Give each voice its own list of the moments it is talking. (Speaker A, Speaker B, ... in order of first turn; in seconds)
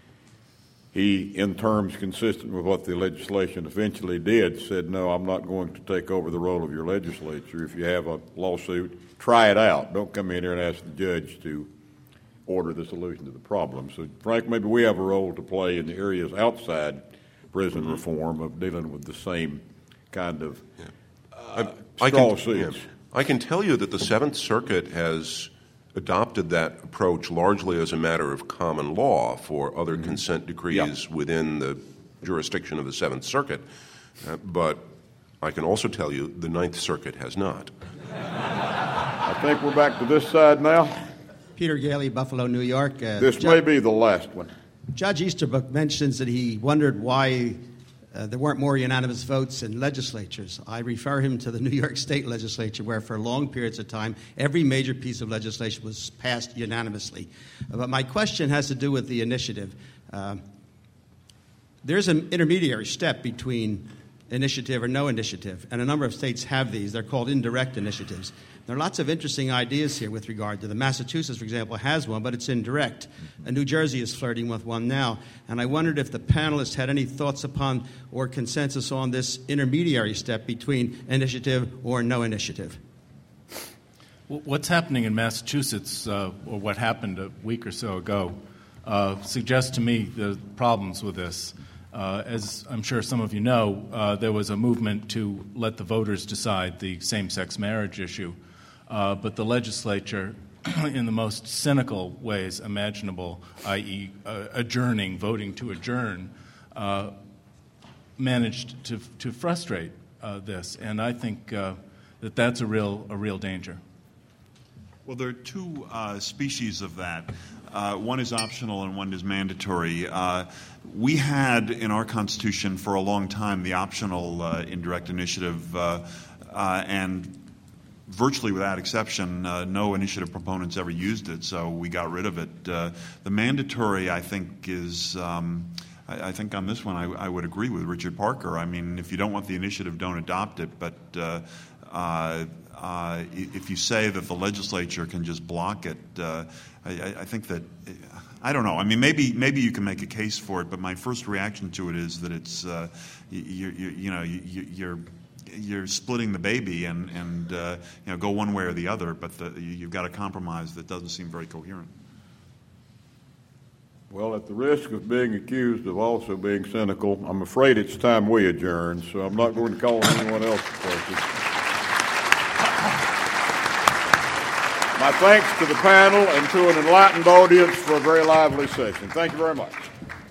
Speaker A: 0.9-11.7, 12.5-20.6, 21.4-22.9, 29.9-30.2, 39.2-41.0, 43.2-44.5, 164.1-171.3, 174.9-179.9
Speaker B: 21.5-33.6, 34.2-37.7
Speaker C: 41.6-43.6, 44.9-47.6, 48.1-60.4, 61.8-82.8
Speaker D: 84.3-98.4, 98.9-107.2, 108.2-113.8
Speaker E: 115.1-127.4, 128.1-161.9